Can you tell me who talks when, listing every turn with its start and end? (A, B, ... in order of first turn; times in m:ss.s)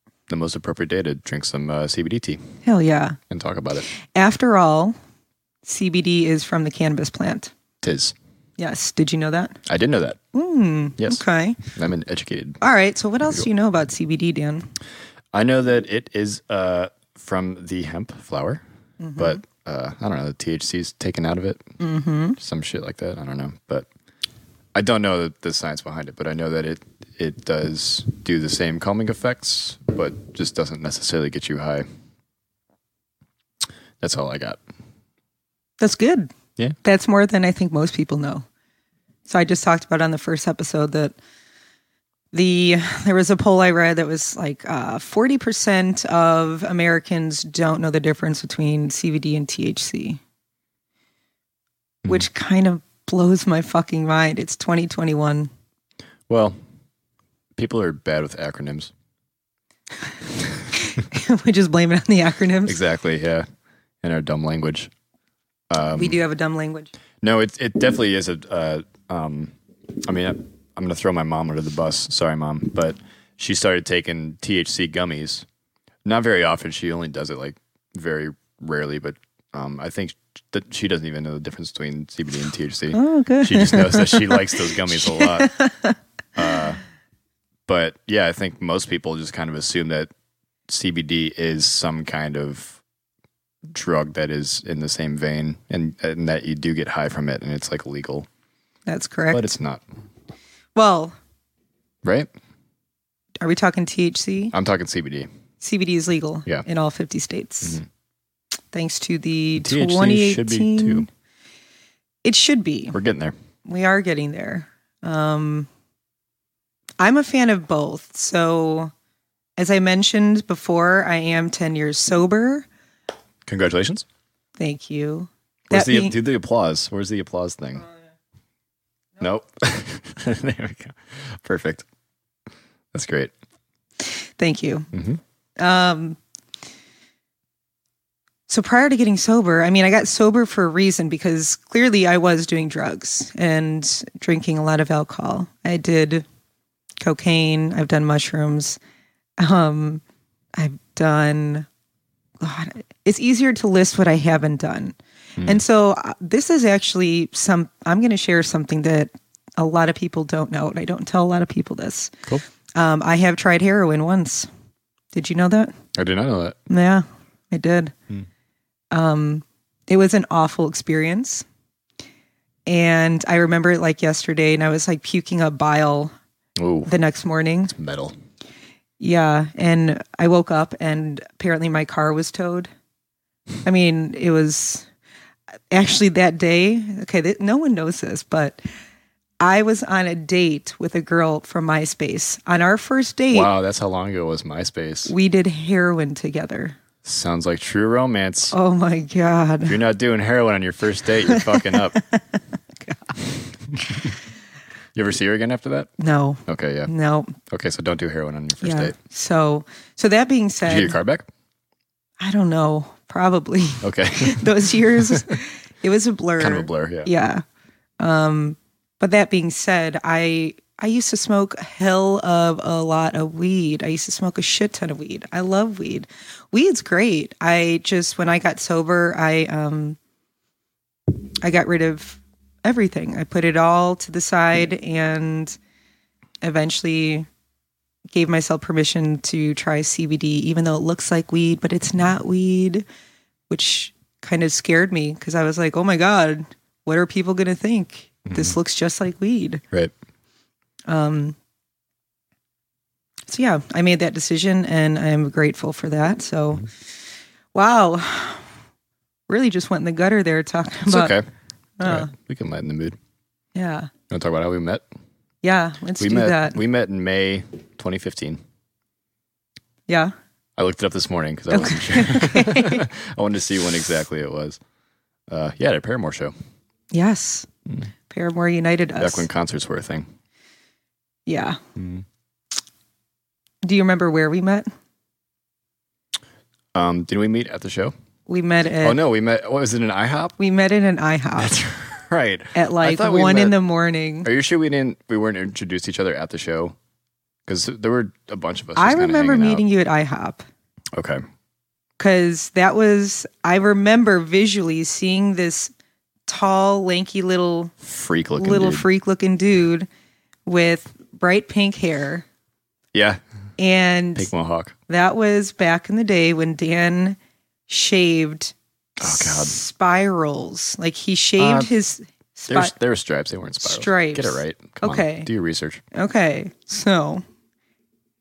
0:00.3-0:02.4 A
0:02.6-0:03.2 B
0:03.3-0:03.9 A
0:03.9-0:05.0 B
0:05.6-0:07.5 B
0:07.8-0:08.2 A
0:08.6-0:09.6 B
0:09.7-0:10.2 A
0:10.3-0:11.6 B
0:11.0-0:12.6 A
0:12.6-0:14.7 B
0:15.3-0:18.6 A
0:19.0-0:19.4 B
0:19.2-0:21.6 A
0:21.8-0:22.4 B
0:22.4-0:23.9 A
0:24.8-0:31.9 A
0:34.0-0:34.6 A
0:35.8-0:38.5 B
0:39.3-0:41.2 B
0:42.3-0:50.2 B
0:52.1-0:55.5 B
0:56.3-0:56.6 A
0:57.6-0:58.9 A
1:00.7-1:02.8 B
1:02.7-1:03.5 A
1:04.0-1:04.9 A
1:05.7-1:06.2 A
1:05.9-1:06.9 B
1:07.2-1:09.5 A
1:10.1-1:15.5 A
1:16.0-1:25.6 A
1:22.9-1:26.0 B
1:26.4-1:26.8 A
1:27.7-1:30.1 A
1:30.7-1:32.8 A
1:33.7-1:38.3 A
1:38.9-1:39.5 B
1:39.3-1:39.8 A
1:40.8-1:41.2 B
1:42.0-1:42.3 A
1:43.4-1:44.5 B
1:44.5-1:45.3 A
1:45.6-1:47.8 B
1:48.7-1:51.1 B
1:49.6-1:51.1 A
1:52.2-1:53.0 B
1:52.9-1:53.4 A
1:53.6-1:55.7 B
1:57.0-1:58.9 B
1:59.6-2:02.7 B
2:03.4-2:04.1 A
2:04.6-2:06.2 B
2:05.7-2:07.9 A
2:09.2-2:11.9 A
2:12.9-2:13.3 A
2:14.1-2:14.9 B
2:14.9-2:15.2 A
2:15.6-2:16.2 B
2:18.5-2:26.3 B
2:27.0-2:28.8 B
2:29.4-2:30.0 B
2:30.6-2:31.7 B
2:32.4-2:42.1 B
2:42.8-2:44.5 B
2:45.1-2:45.8 B
2:46.0-2:46.6 A
2:46.7-2:47.9 B
2:48.9-2:51.5 B
2:52.7-2:56.1 B
2:56.6-2:57.0 A
2:56.9-2:57.8 B
2:57.7-2:58.2 A
2:59.0-3:02.7 B
3:03.6-3:04.9 B
3:05.7-3:08.6 B
3:09.4-3:13.5 B
3:13.3-3:15.1 A
3:15.1-3:16.8 B
3:17.0-3:18.5 A
3:18.5-3:19.8 B
3:19.7-3:22.0 A
3:21.3-3:22.2 B
3:22.9-3:23.1 B
3:23.2-3:24.2 A
3:25.0-3:25.9 A
3:26.0-3:27.4 B
3:26.5-3:26.9 A
3:27.4-3:29.0 A
3:28.6-3:31.0 B
3:30.6-3:31.3 A
3:32.2-3:37.4 B
3:33.8-3:35.3 A
3:36.4-3:37.1 A
3:38.0-3:50.0 B
3:51.4-3:55.6 B
3:56.4-3:57.3 B
3:58.1-4:02.8 B
4:03.5-4:09.6 B
4:08.3-4:08.6 A
4:10.9-4:11.4 B
4:13.3-4:16.7 B
4:17.5-4:18.5 B
4:19.3-4:21.2 B
4:20.9-4:21.2 A
4:21.8-4:22.1 B
4:21.8-4:23.0 A
4:23.6-4:23.9 B
4:24.1-4:24.8 A
4:25.4-4:26.6 B
4:26.0-4:28.4 A
4:29.9-4:30.1 B
4:30.6-4:34.6 A
4:31.5-4:32.8 B
4:35.3-4:36.3 A
4:36.9-4:37.5 B
4:38.1-4:39.3 B
4:39.0-4:40.1 A
4:41.3-4:41.6 B
4:41.8-4:42.0 A
4:43.6-4:44.7 B
4:46.7-4:47.9 A
4:48.3-4:49.0 B
4:48.8-4:50.4 A
4:50.4-4:51.6 B
4:51.4-4:53.6 A
4:52.6-4:54.3 B
4:54.2-4:56.8 A
4:57.5-4:59.6 A
4:58.8-5:00.4 B
5:00.9-5:01.2 A
5:02.0-5:05.7 B
5:06.3-5:07.7 B
5:07.8-5:08.9 A
5:08.4-5:09.9 B
5:10.5-5:12.3 B
5:12.9-5:13.2 A
5:13.6-5:14.3 B
5:14.2-5:14.8 A
5:14.9-5:17.2 B
5:17.7-5:22.7 B
5:19.0-5:19.6 A
5:21.4-5:21.7 A
5:22.5-5:25.8 A
5:23.6-5:25.3 B
5:25.9-5:27.2 B